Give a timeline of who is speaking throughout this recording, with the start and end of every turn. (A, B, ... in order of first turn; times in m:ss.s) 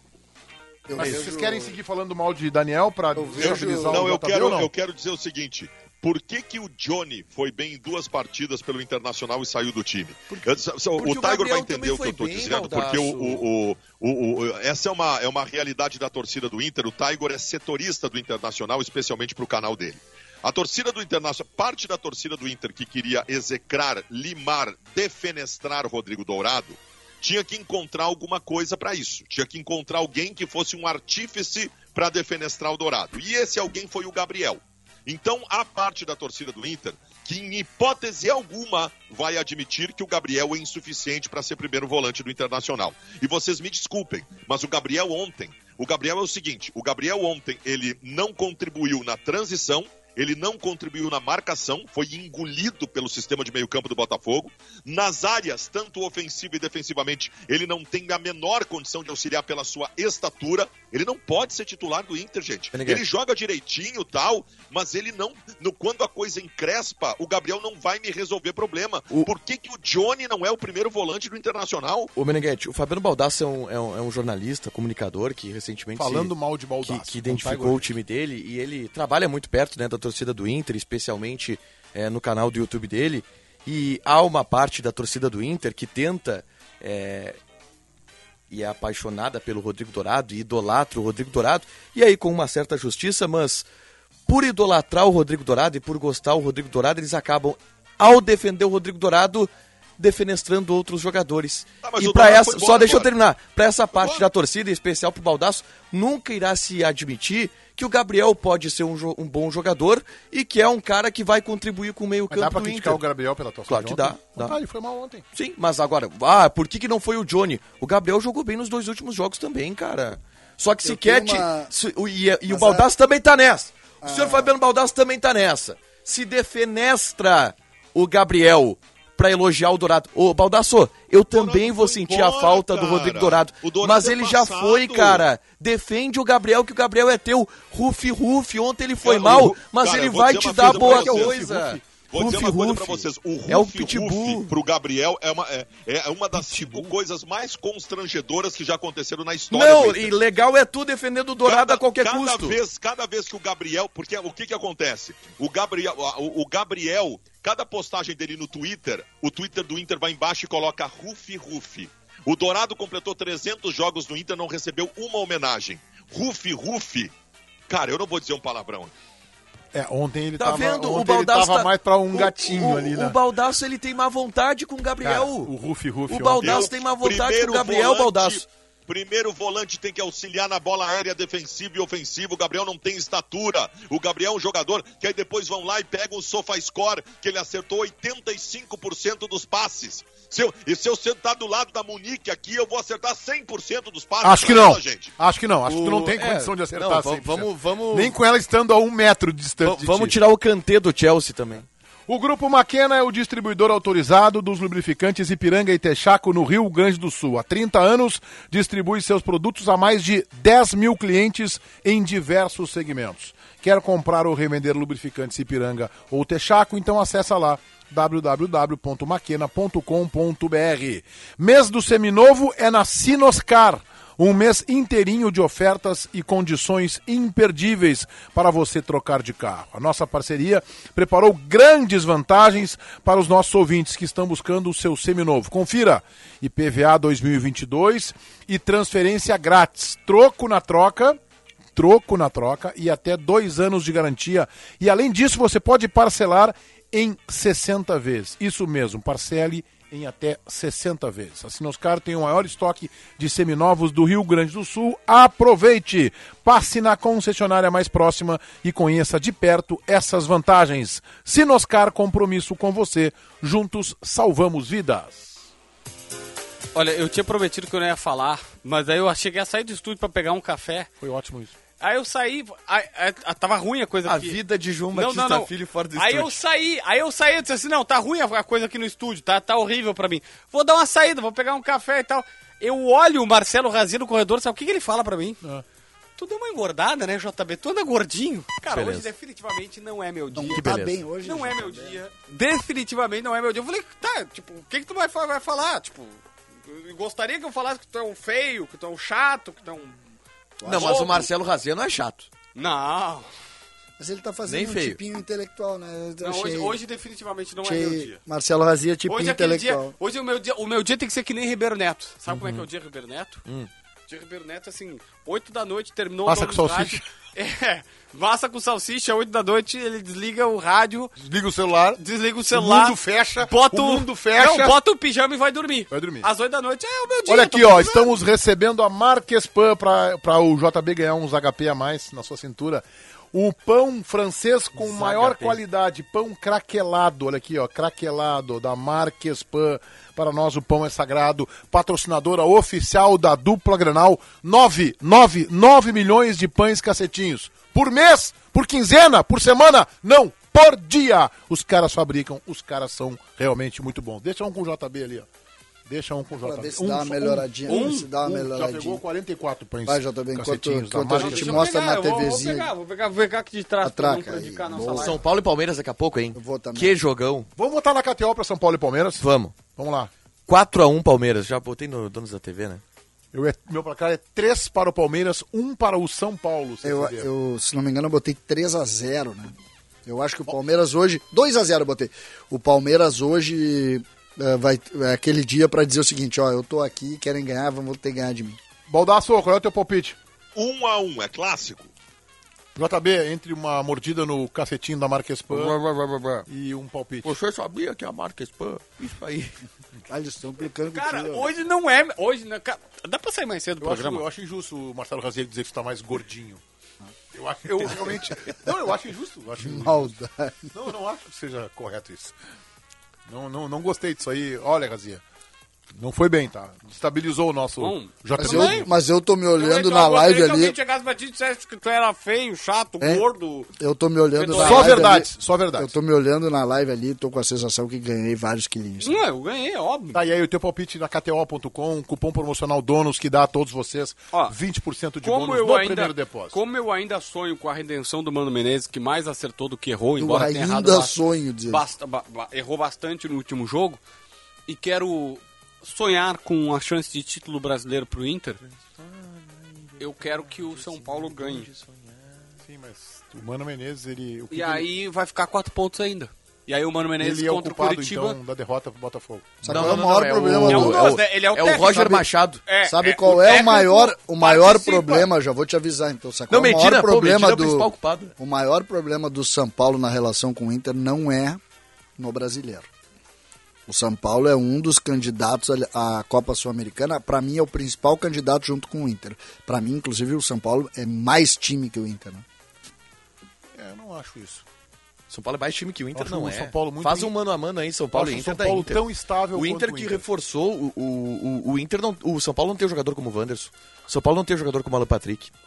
0:00.9-0:01.8 A
0:01.0-0:04.7 B
0:03.1-0:04.1 A
0:03.4-1:12.1 C
0:10.3-0:13.4 D
1:02.7-1:03.0 D
1:12.2-1:27.4 D
1:16.0-1:17.9 B
1:28.5-1:33.6 D
1:34.3-1:53.0 D
1:41.8-1:43.1 C
1:44.0-1:44.2 C
1:52.3-1:55.2 B
1:53.7-1:54.6 D
1:55.3-2:24.5 D
2:00.8-2:01.7 A
2:02.5-2:02.9 A
2:04.0-2:04.5 A
2:11.3-2:15.3 C
2:19.0-2:21.4 C
2:20.6-2:21.8 B
2:22.1-2:30.2 C
2:26.4-2:26.9 B
2:29.5-2:32.6 D
2:31.4-2:47.1 C
2:47.7-2:48.9 C
2:49.7-2:53.2 B
2:50.4-2:55.5 D
2:55.0-2:56.7 B
2:56.1-2:58.4 D
2:56.4-3:15.2 C
3:14.2-3:20.2 B
3:15.7-3:18.2 D
3:19.6-3:21.7 D
3:22.1-4:01.2 B
4:01.8-4:25.3 B
4:26.8-4:30.9 E
4:31.0-4:31.5 B
4:31.8-4:34.4 E
4:34.0-4:36.4 D
4:34.9-4:45.4 E
4:46.2-4:50.7 E
4:48.7-4:49.1 D
4:50.3-4:52.0 A
4:50.5-4:51.0 D
4:51.2-5:00.0 E
5:00.6-5:01.2 A
5:00.6-5:02.3 D
5:00.7-5:01.3 E
5:02.6-5:03.3 E
5:04.0-5:06.8 A
5:04.5-5:05.0 D
5:06.2-5:08.2 E
5:07.6-5:10.0 A
5:09.1-5:13.4 E
5:12.3-5:12.6 D
5:14.1-5:21.1 E
5:16.2-5:17.0 B
5:21.2-5:24.8 B
5:22.0-5:28.2 E
5:25.9-5:26.3 B
5:27.3-5:55.3 B
5:34.8-5:35.6 D
5:55.9-6:01.8 B
5:56.4-5:59.0 A
5:57.7-5:58.1 E
5:59.9-6:02.7 A
6:01.2-6:05.2 E
6:03.8-6:05.2 A
6:04.9-6:07.5 D
6:06.3-6:07.0 A
6:07.6-6:10.1 B
6:09.2-6:09.6 D
6:10.5-6:12.8 D
6:13.3-6:17.3 B
6:16.8-6:19.5 A
6:20.0-6:28.6 A
6:28.9-6:30.2 B
6:30.6-6:31.9 C
6:32.8-6:35.8 B
6:35.5-6:36.5 D
6:36.5-6:37.3 B
6:37.2-6:39.6 D
6:40.1-6:41.5 A
6:40.9-6:44.2 E
6:43.8-6:46.6 B
6:47.3-6:50.1 B
6:49.6-6:50.7 A
6:50.7-6:52.3 B
6:53.3-6:55.2 B
6:56.0-6:58.9 B
6:57.8-6:58.9 E
6:58.4-7:00.8 A
6:59.6-7:03.7 E
7:03.0-7:03.2 A
7:03.8-7:09.2 A
7:04.3-7:05.2 E
7:04.5-7:05.9 B
7:09.0-7:10.2 E
7:10.1-7:16.6 B
7:14.3-7:14.6 E
7:15.2-7:24.0 E
7:20.2-7:21.8 A
7:24.7-7:28.6 E
7:28.6-7:32.4 D
7:30.0-7:31.7 E
7:32.6-7:34.9 B
7:34.5-7:38.4 E
7:37.2-7:40.0 B
7:39.6-7:41.1 A
7:39.7-7:42.6 D
7:40.7-7:45.3 E
7:41.8-7:42.2 A
7:42.8-7:51.6 A
7:46.5-7:48.4 D
7:52.2-7:52.9 A
7:53.9-8:02.4 A
8:03.8-8:04.6 B
8:05.3-8:15.5 D
8:06.2-8:07.3 B
8:08.1-8:10.2 B